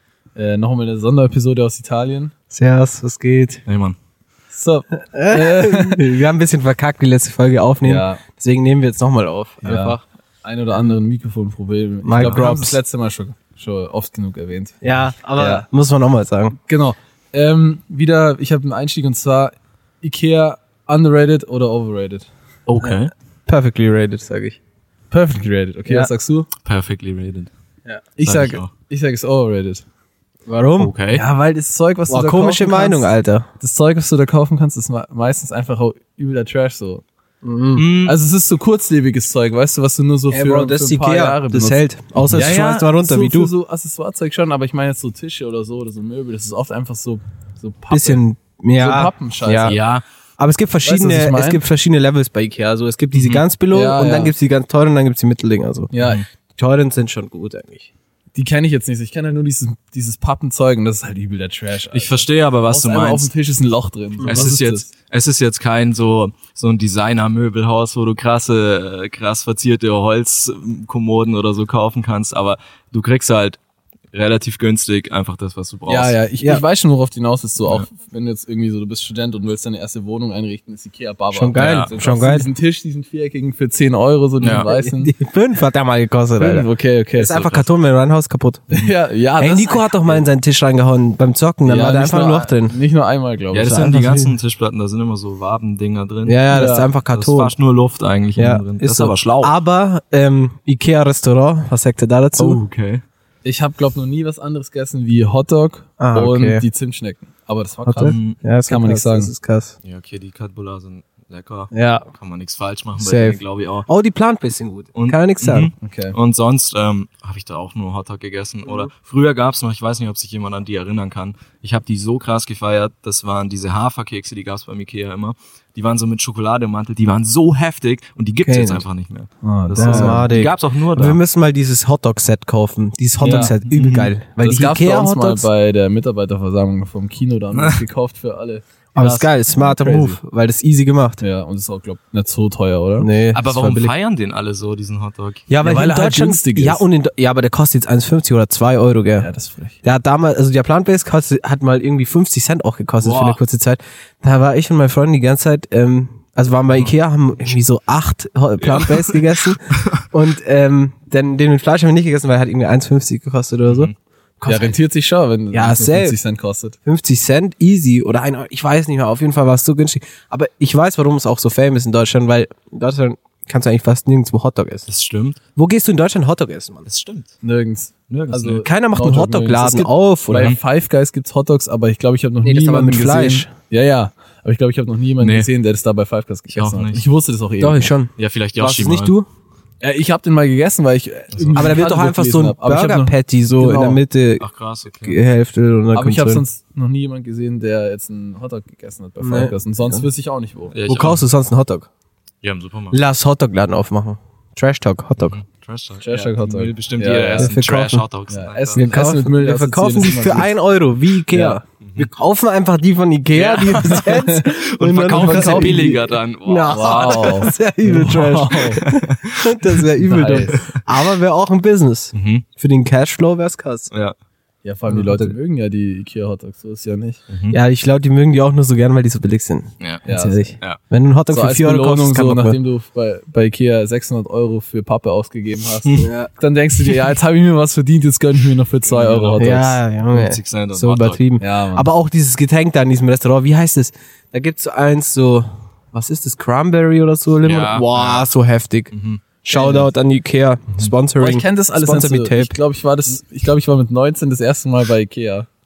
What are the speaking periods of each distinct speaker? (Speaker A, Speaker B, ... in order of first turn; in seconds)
Speaker A: 0.3-2.3, 4.5-6.0, 7.8-8.2, 9.6-14.8, 15.3-15.7, 16.6-22.3, 25.1-26.5, 28.2-29.9, 31.1-33.1, 33.6-37.0, 38.0-48.2, 48.8-49.8, 50.9-51.6, 53.7-54.3, 55.9-56.2, 58.4-64.9, 75.9-85.1, 86.4-87.4, 88.7-90.2, 91.7-93.8, 96.5-96.9, 103.4-109.3, 115.8-116.2, 129.4-130.3, 133.2-133.5, 134.4-138.6, 139.6-140.2, 141.2-143.1, 145.6-146.8, 149.2-149.8, 164.5-166.8, 177.4-187.9, 189.8-194.0, 195.9-200.8, 206.0-207.5, 208.3-210.5, 211.3-211.6, 213.9-214.4, 215.1-216.1, 216.7-218.8, 220.0-220.6, 224.6-227.2, 230.1-230.4, 231.3-239.8, 241.4-241.9, 249.5-249.9, 251.2-255.5
Speaker B: 2.5-3.6, 5.1-10.0, 12.0-12.8, 14.8-16.6, 22.8-24.6, 30.5-30.9, 32.1-33.5, 37.4-37.9, 40.3-43.5, 47.9-49.8, 50.4-55.9, 56.6-57.9, 64.2-64.5, 81.3-82.5, 84.7-88.7, 89.4-92.8, 93.6-94.3, 96.3-97.5, 98.4-102.6, 106.0-106.6, 107.9-109.7, 111.7-112.1, 113.0-115.7, 128.4-128.8, 129.8-135.5, 138.9-141.2, 143.0-143.9, 145.5-149.3, 149.8-164.7, 165.5-166.2, 166.9-174.9, 175.6-176.9, 178.6-180.6, 182.4-183.5, 187.6-189.3, 191.6-194.5, 195.0-196.4, 199.2-200.0, 200.9-201.9, 202.9-205.4, 207.4-208.0, 208.8-223.9, 224.9-225.3, 227.5-232.6, 236.0-236.3, 239.4-248.9, 249.4-252.6
Speaker C: 3.7-4.0, 9.6-10.0, 22.7-23.1, 26.6-27.5, 28.2-28.7, 30.8-31.2, 37.8-38.2, 49.7-50.0, 53.1-53.4, 56.0-56.2, 61.9-63.3, 64.3-73.6, 74.1-76.2, 81.6-81.9, 84.4-84.7, 87.3-87.6, 93.5-96.4, 97.1-99.5, 102.4-103.0, 108.0-108.4, 109.8-113.9, 115.0-131.2, 133.2-134.1, 139.0-139.3, 143.3-145.5, 153.0-153.4, 158.6-160.0, 163.7-163.9, 174.9-175.4, 176.9-177.3, 178.1-178.6, 185.2-185.5, 186.5-187.1, 188.2-189.1, 191.3-191.8, 194.4-195.2, 200.7-201.2, 202.4-203.0, 205.2-208.9, 211.8-212.1, 213.3-217.5, 218.5-219.6, 220.3-220.8, 222.1-222.5, 227.3-227.6, 229.8-230.1, 238.9-239.6, 240.1-241.2, 247.4-248.2, 248.9-249.2